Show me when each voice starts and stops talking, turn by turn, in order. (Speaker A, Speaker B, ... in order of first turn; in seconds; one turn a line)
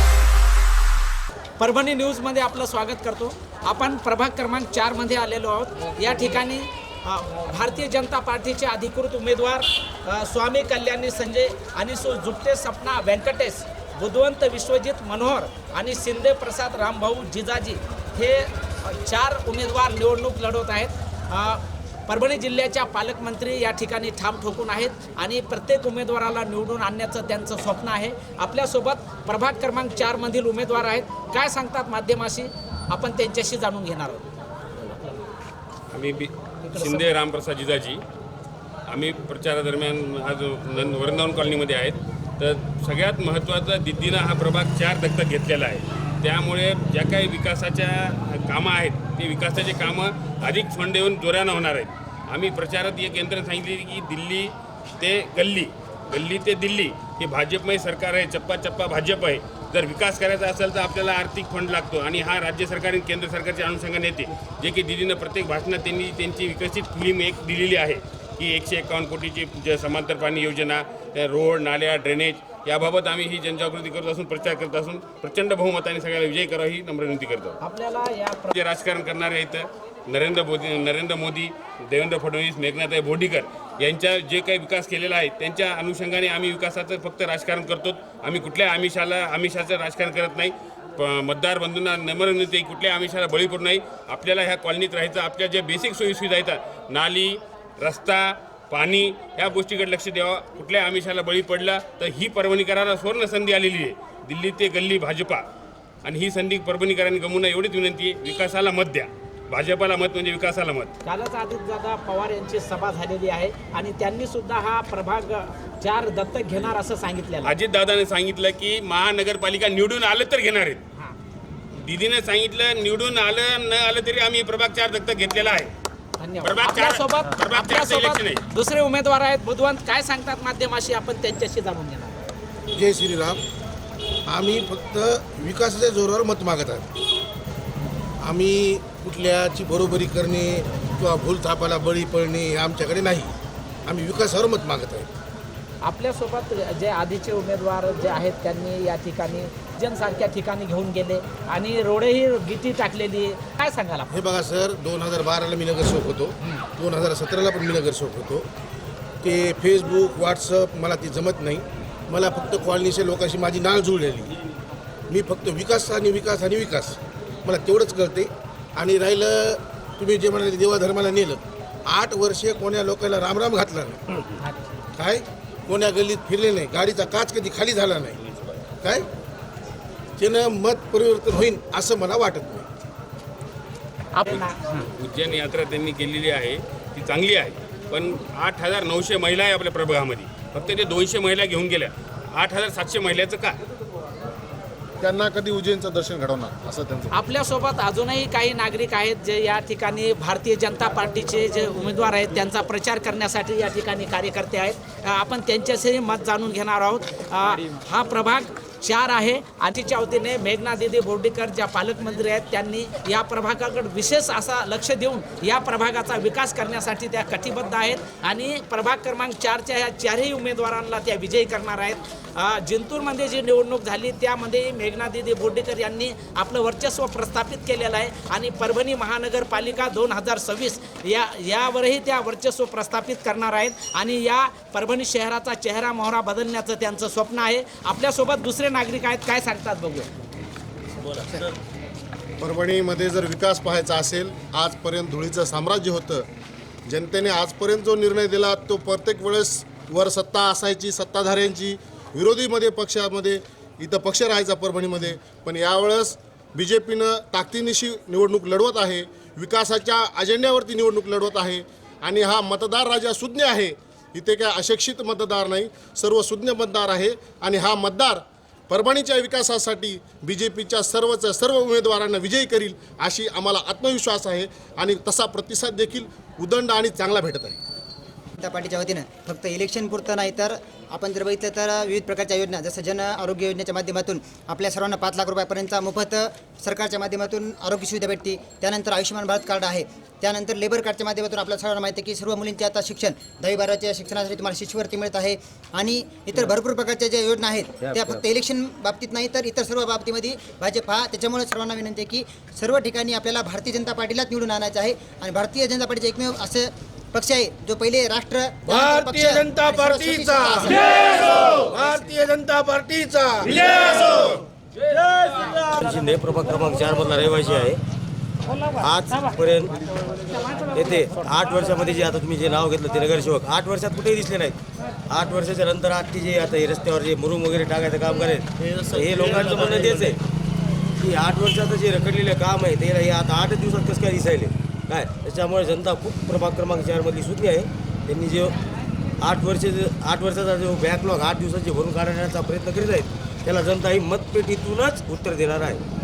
Speaker A: 1.6-34.3
Speaker B: 35.9-38.0
Speaker A: 36.8-37.0
Speaker B: 38.9-77.6
Speaker A: 77.6-78.5
Speaker B: 78.5-105.5
Speaker B: 106.0-110.9
Speaker A: 111.0-117.5
Speaker B: 117.5-120.8
Speaker B: 121.8-125.7
Speaker A: 126.2-132.3
Speaker B: 126.4-128.4
Speaker C: 132.7-133.4
Speaker C: 134.3-136.9
Speaker C: 138.2-143.3
Speaker C: 143.9-145.1
Speaker A: 145.8-154.1
Speaker C: 154.1-158.5
Speaker C: 159.2-164.3
Speaker C: 165.1-174.2
Speaker A: 174.4-174.8
Speaker C: 175.0-178.2
Speaker C: 180.2-182.7
Speaker A: 184.1-184.9
Speaker B: 185.0-193.6
Speaker D: 195.0-197.1
Speaker A: 197.1-240.1
Speaker D: 242.4-246.3
Speaker D: 246.9-277.6
Speaker E: 278.4-310.8
Speaker F: 297.9-298.1
Speaker C: 308.7-314.4
Speaker F: 314.9-317.8
Speaker F: 318.8-319.7
Speaker F: 320.7-324.6
Speaker F: 325.1-330.2
Speaker F: 331.0-338.5
Speaker F: 339.2-345.8